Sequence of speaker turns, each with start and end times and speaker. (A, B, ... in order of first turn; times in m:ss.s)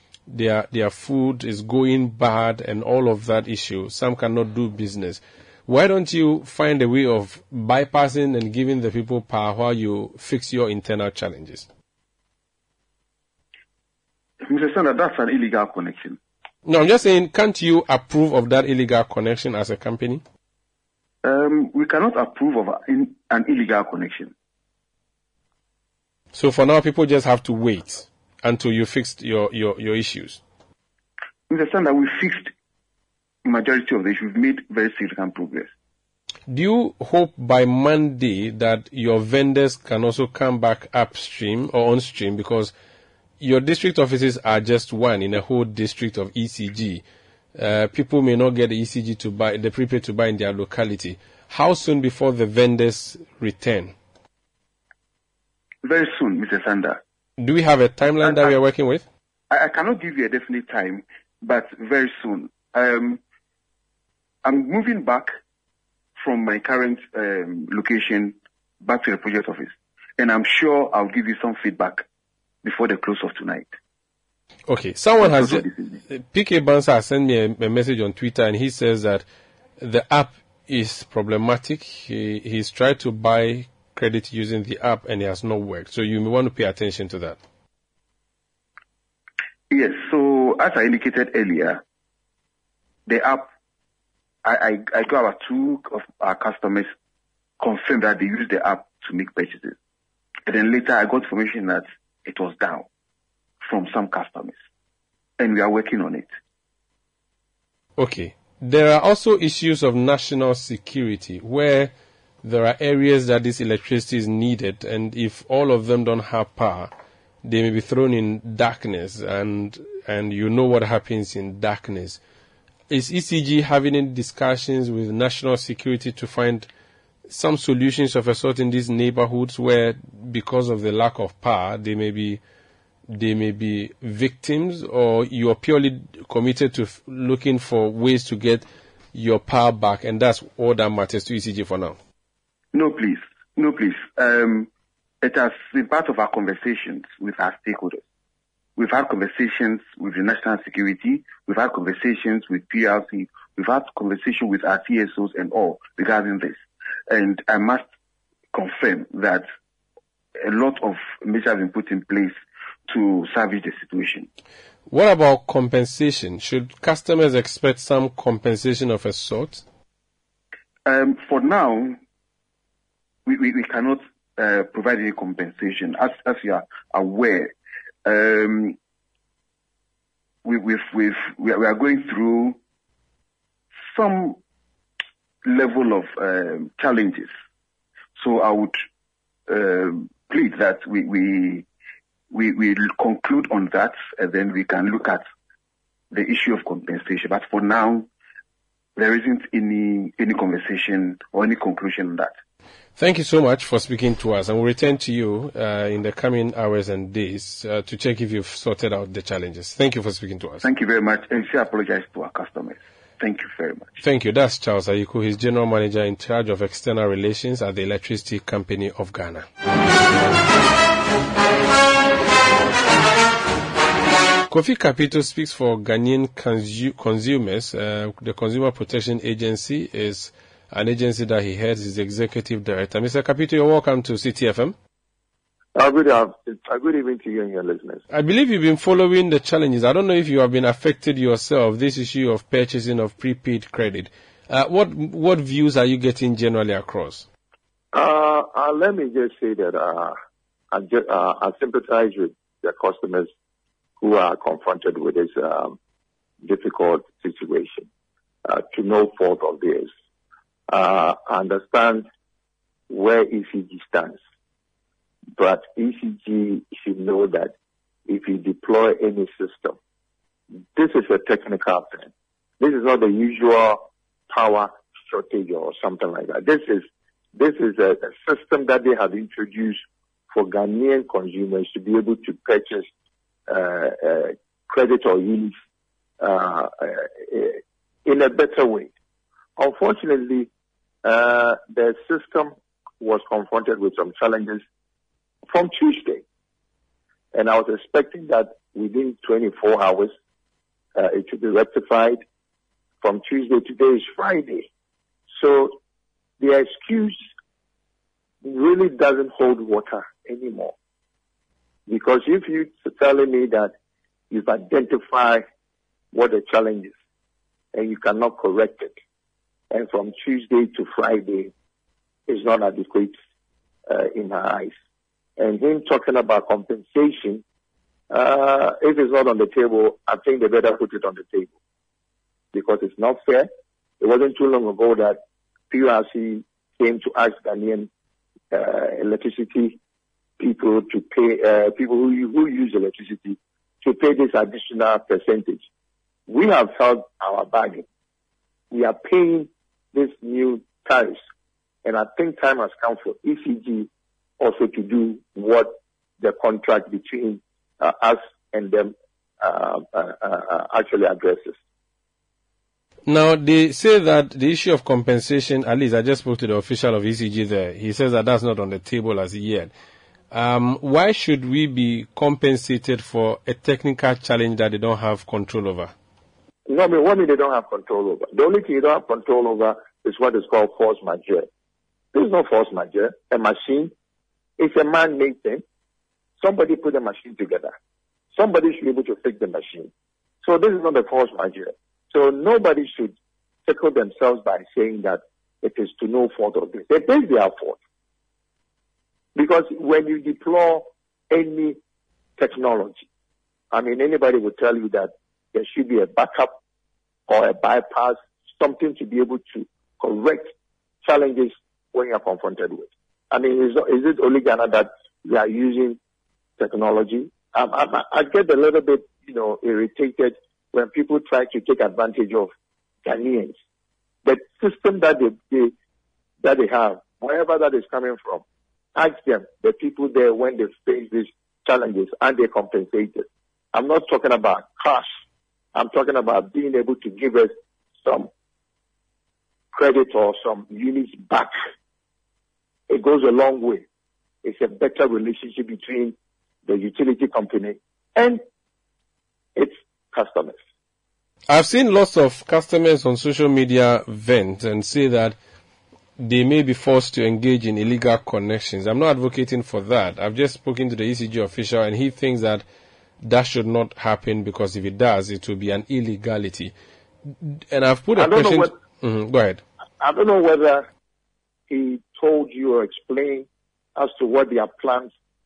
0:00.3-0:11.7 A
0:14.4-0:16.2 B
0:16.6-0:20.2 A
0:21.2-0:24.3 B
0:26.3-0:30.4 A
0:31.5-0:32.5 B
0:33.4-0:35.7 B
0:36.5-0:42.7 A
0:43.4-0:47.0 A
0:47.6-0:53.9 A
0:55.8-0:57.0 B
0:57.4-0:59.0 A
0:58.2-0:58.5 B
0:59.5-1:03.2 B
1:04.4-1:05.4 B
1:06.2-1:12.0 B
1:12.6-1:13.7 B
1:14.7-1:19.2 A
1:15.2-1:15.7 B
1:19.8-1:27.4 A
1:29.7-1:31.8 B
1:33.1-1:33.5 B
1:34.4-1:36.9 B
1:37.6-1:39.7 B
1:40.5-1:42.8 B
1:43.6-1:44.5 B
1:45.4-1:46.3 B
1:48.0-1:51.9 A
1:52.4-1:56.9 A
1:57.4-2:02.2 A
2:02.9-2:06.7 A
2:07.3-2:12.4 A
2:13.1-2:22.0 A
2:22.7-2:24.7 B
2:25.2-2:28.0 B
2:28.8-2:37.8 B
2:38.5-2:39.4 B
2:40.4-2:42.4 B
2:42.9-2:44.3 B
2:44.9-2:49.6 A
2:50.9-2:52.0 B
2:53.3-2:57.5 B
2:58.0-2:58.8 B
3:00.4-3:02.6 B
3:03.9-3:04.4 B
3:05.4-3:07.3 B
3:08.2-3:08.8 B
3:09.5-3:11.6 B
3:12.3-3:15.2 B
3:16.1-3:18.0 B
3:19.0-3:22.3 B
3:23.0-3:30.6 A
3:30.6-3:33.9 B
3:34.0-3:39.4 A
3:44.5-3:54.7 A
3:55.7-3:58.0 C
3:58.1-4:07.2 A
4:07.9-4:10.2 C
4:10.7-4:13.3 C
4:14.0-4:15.8 C
4:16.4-4:17.9 C
4:18.4-4:19.9 C
4:20.7-4:22.0 C
4:22.9-4:24.2 C
4:25.4-4:27.5 C
4:28.1-4:29.8 C
4:30.7-4:42.9 C
4:43.5-4:45.5 C
4:46.2-4:48.9 C
4:49.6-4:50.5 C
4:51.0-4:54.6 C
4:55.5-4:56.2 C
4:57.3-5:00.1 C
5:01.0-5:02.2 C
5:03.0-5:04.7 C
5:05.3-5:05.8 C
5:06.4-5:07.2 C
5:08.4-5:10.7 C
5:11.9-5:13.7 C
5:14.3-5:15.4 C
5:16.1-5:16.9 C
5:17.7-5:18.9 C
5:19.7-5:21.5 C
5:22.3-5:23.1 C
5:23.9-5:24.7 C
5:25.4-5:27.4 C
5:28.1-5:31.5 C
5:32.5-5:33.5 C
5:34.0-5:37.9 C
5:38.5-5:39.8 C
5:40.4-5:45.6 C
5:46.3-5:47.8 C
5:48.7-5:51.2 C
5:51.8-5:53.9 C
5:54.4-6:01.6 C
6:03.1-6:09.7 A
6:10.3-6:15.9 A
6:16.7-6:21.5 C
6:22.1-6:23.9 C
6:24.6-6:25.6 C
6:26.4-6:27.7 C
6:28.3-6:29.9 C
6:30.4-6:33.1 C
6:33.6-6:37.8 C
6:39.4-6:41.8 C
6:42.4-6:43.0 C
6:43.7-6:46.6 C
6:47.3-6:50.5 C
6:51.0-6:56.0 C
6:56.6-7:02.5 C
7:03.0-7:03.6 C
7:04.2-7:05.7 C
7:06.4-7:08.4 C
7:09.0-7:15.1 C
7:15.7-7:18.3 C
7:19.7-7:21.5 C
7:22.9-7:23.8 C
7:24.4-7:28.4 C
7:29.6-7:30.6 C
7:31.5-7:35.4 A
7:36.2-7:42.6 A
7:43.2-7:46.7 A
7:47.4-7:49.6 A
7:48.2-7:48.7 C
7:50.0-7:50.8 C
7:51.7-7:55.1 C